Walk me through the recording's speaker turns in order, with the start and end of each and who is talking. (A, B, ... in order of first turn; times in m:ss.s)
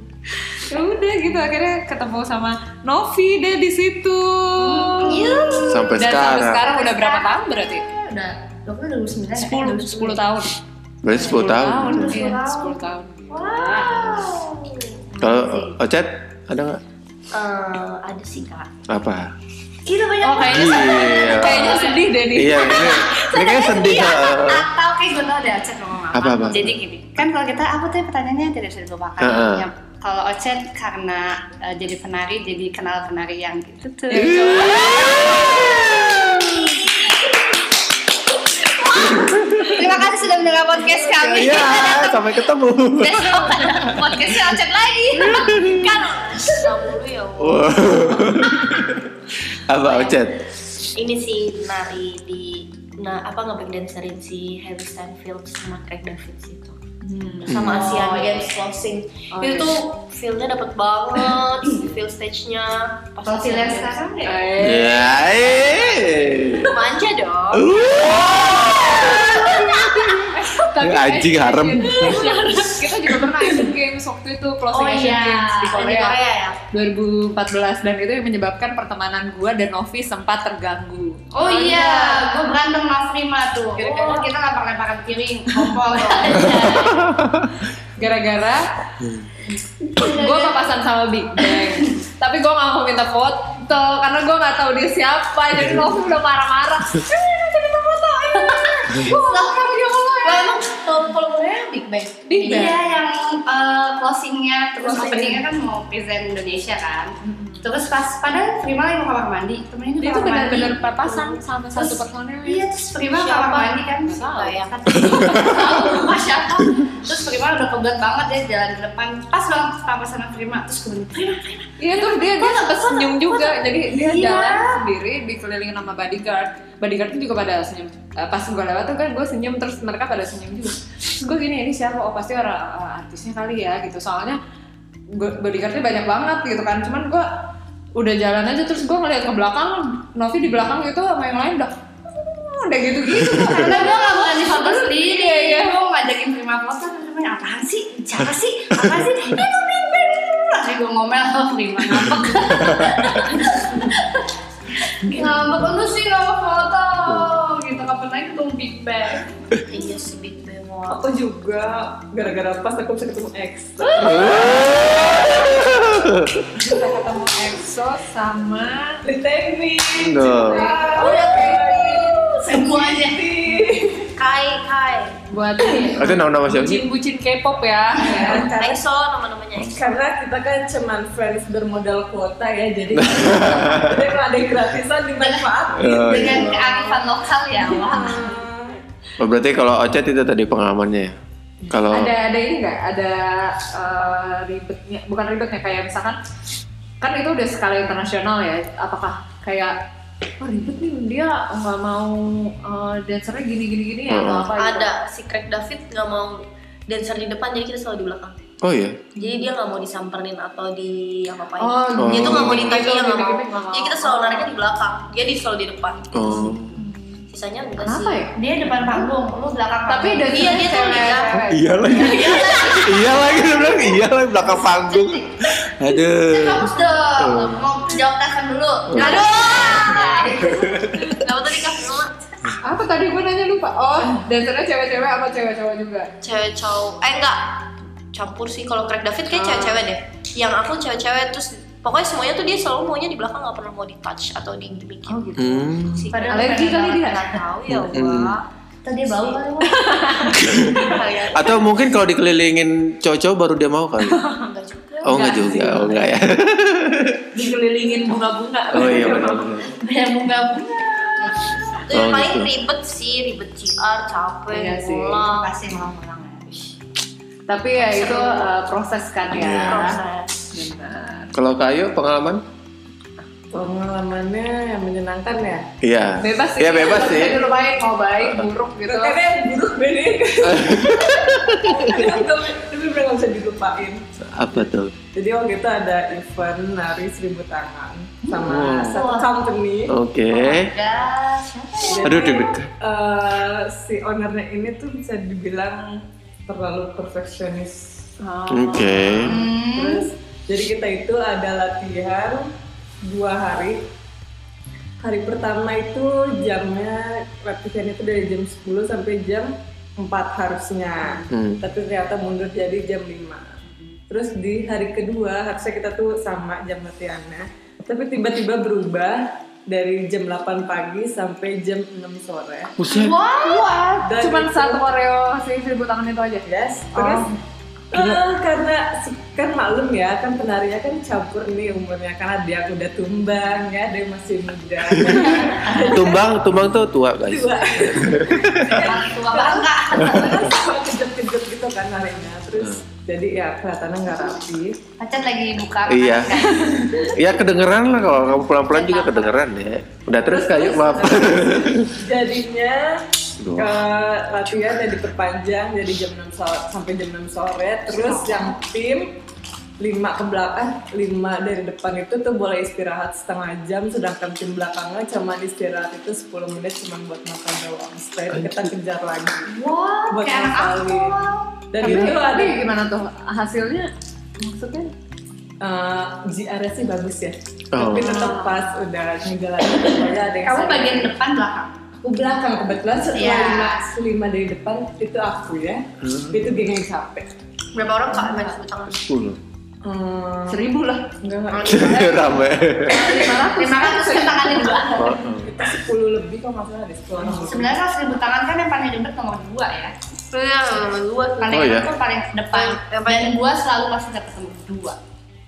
0:00.5-0:07.9 A
0:04.6-0:10.2 B
0:05.0-0:05.9 C
0:05.5-0:06.7 D
0:09.4-0:10.5 A
0:11.0-0:12.3 D
0:11.1-0:14.0 A
0:11.1-0:15.8 B
0:13.5-0:14.5 C
0:15.2-0:16.8 D
0:17.3-0:18.7 C
0:18.9-0:19.3 D
0:19.8-0:37.4 B
0:20.2-0:23.3 A
0:20.4-0:24.7 D
0:26.1-0:26.8 D
0:29.2-0:29.7 D
0:34.1-0:35.3 A
0:34.5-0:36.5 D
0:39.0-0:39.8 D
0:39.6-0:42.4 B
0:41.0-0:44.3 D
0:43.0-0:46.7 B
0:45.2-0:45.9 D
0:45.6-0:48.5 C
0:47.4-0:49.1 D
0:49.7-0:50.4 D
0:49.8-0:50.2 C
0:51.0-0:56.8 C
0:57.0-0:58.2 A
0:57.5-1:04.2 C
0:57.5-0:57.8 D
0:57.7-0:58.4 B
0:59.3-0:59.8 A
1:03.2-1:04.5 B
1:04.2-1:05.1 A
1:04.6-1:06.7 D
1:06.6-1:07.7 C
1:07.5-1:12.2 D
1:09.9-1:16.2 A
1:11.9-1:12.9 C
1:14.7-1:15.8 B
1:15.6-1:16.6 C
1:16.7-1:22.4 A
1:21.4-1:27.1 B
1:23.8-1:24.3 A
1:23.8-1:24.2 C
1:26.1-1:26.4 C
1:26.5-1:27.5 D
1:28.0-1:28.6 A
1:29.5-1:30.7 B
1:30.0-1:40.5 A
1:31.6-1:31.8 B
1:38.5-1:40.5 B
1:40.2-1:42.9 C
1:42.3-1:42.8 A
1:42.4-2:04.8 B
1:45.0-1:45.3 E
1:47.2-1:47.7 A
1:50.0-1:52.7 A
1:53.1-1:54.9 C
1:54.0-1:56.2 A
2:01.8-2:14.4 A
2:15.1-2:17.3 A
2:18.0-2:25.8 A
2:23.5-2:39.4 B
2:37.1-2:37.4 D
2:39.7-2:41.0 C
2:40.9-2:45.3 E
2:44.0-2:46.3 D
2:44.1-2:44.8 A
2:46.5-2:49.1 A
2:49.0-2:54.1 E
2:50.0-2:50.7 D
2:50.3-2:52.0 A
2:50.8-2:52.1 C
2:52.4-2:53.3 B
2:54.2-2:55.2 C
2:55.3-2:58.7 A
2:55.6-2:56.0 E
2:56.0-2:56.8 D
2:58.1-2:58.8 E
2:58.5-2:59.8 C
2:59.7-3:06.8 E
3:03.0-3:04.1 D
3:05.2-3:08.4 B
3:05.7-3:06.6 D
3:07.8-3:08.8 E
3:09.2-3:11.2 D
3:11.7-3:12.1 D
3:11.8-3:16.2 A
3:17.0-3:19.8 A
3:20.4-3:24.9 A
3:24.1-3:24.5 D
3:24.6-3:28.4 C
3:28.6-3:29.0 D
3:29.2-3:36.6 C
3:29.2-3:29.5 A
3:31.6-3:34.5 A
3:32.0-3:32.9 D
3:36.1-3:36.8 D
3:36.4-3:37.2 A
3:37.3-3:38.3 C
3:37.9-3:38.4 A
3:38.3-3:40.6 B
3:39.9-3:42.5 A
3:40.3-3:43.2 C
3:41.5-3:47.7 D
3:42.3-3:42.8 B
3:44.9-3:45.2 B
3:46.2-3:50.8 B
3:48.9-3:51.1 D
3:48.9-3:52.5 C
3:49.1-3:50.2 A
3:52.6-3:56.1 A
3:56.2-4:08.4 C
3:59.3-3:59.9 A
4:05.1-4:05.7 A
4:05.4-4:06.1 D
4:06.1-4:07.4 B
4:06.3-4:07.4 A
4:07.7-4:08.4 D
4:08.8-4:10.4 B
4:09.1-4:09.4 C
4:09.6-4:11.3 A
4:10.4-4:14.2 D
4:10.8-4:11.5 C
4:14.1-4:14.5 A
4:14.4-4:15.5 C
4:15.0-4:17.2 D
4:15.1-4:16.2 A
4:17.3-4:19.5 A
4:18.7-4:19.7 D
4:19.7-4:21.9 B
4:21.8-4:25.9 C
4:21.9-4:22.5 D
4:24.5-4:25.3 A
4:25.3-4:26.4 B
4:26.5-4:26.7 C
4:27.5-4:30.0 A
4:27.8-4:28.5 C
4:29.3-4:29.9 D
4:29.6-4:30.4 C
4:30.5-4:31.3 A
4:31.3-4:32.4 D
4:33.5-4:35.7 E
4:35.8-4:37.5 D
4:36.2-4:39.2 A
4:38.8-4:44.0 E
4:40.5-4:42.1 D
4:44.2-4:44.9 D
4:45.1-4:50.0 E
4:48.4-4:49.0 D
4:49.0-4:49.3 B
4:49.9-4:50.7 D
4:50.3-4:52.4 B
4:51.9-4:58.0 E
4:52.0-4:52.7 D
4:58.2-4:59.4 A
4:58.5-4:59.4 D
4:59.2-5:02.5 E
4:59.3-5:00.1 B
5:03.0-5:03.9 E
5:05.0-5:13.6 E
5:11.3-5:11.6 D
5:14.1-5:22.8 E
5:22.8-5:23.2 D
5:22.9-5:24.1 B
5:23.5-5:27.3 A
5:24.0-5:24.9 E
5:26.5-5:27.3 E
5:27.9-5:36.4 E
5:27.9-5:28.2 D
5:35.0-5:35.3 D
5:35.4-5:36.1 B
5:35.8-5:38.9 D
5:37.3-5:44.8 E
5:38.8-5:40.5 B
5:40.0-5:40.3 D
5:45.0-5:47.0 B
5:45.9-5:46.4 D
5:47.1-5:51.9 D
5:48.7-5:49.4 B
5:50.3-5:52.9 E
5:53.4-5:53.8 D
5:53.6-5:59.1 E
5:57.9-5:58.3 B
5:59.8-6:09.6 E
6:08.3-6:08.7 D
6:09.5-6:11.6 B
6:10.1-6:12.7 E
6:11.8-6:14.9 A
6:15.6-6:21.1 E
6:17.7-6:18.3 D
6:17.9-6:18.6 A
6:20.4-6:21.8 B
6:22.0-6:27.3 E
6:23.1-6:23.8 B
6:26.0-6:26.5 D
6:27.7-6:29.0 C
6:28.9-6:29.4 D
6:29.8-6:32.2 E
6:30.5-6:31.2 A
6:31.5-6:32.5 C
6:31.7-6:33.2 D
6:32.9-6:33.8 E
6:32.9-6:35.0 A
6:33.6-6:35.2 B
6:34.5-6:37.7 E
6:35.0-6:35.5 D
6:37.3-6:39.9 B
6:40.3-6:41.8 C
6:41.4-6:45.0 B
6:41.5-6:41.9 D
6:42.5-6:43.4 C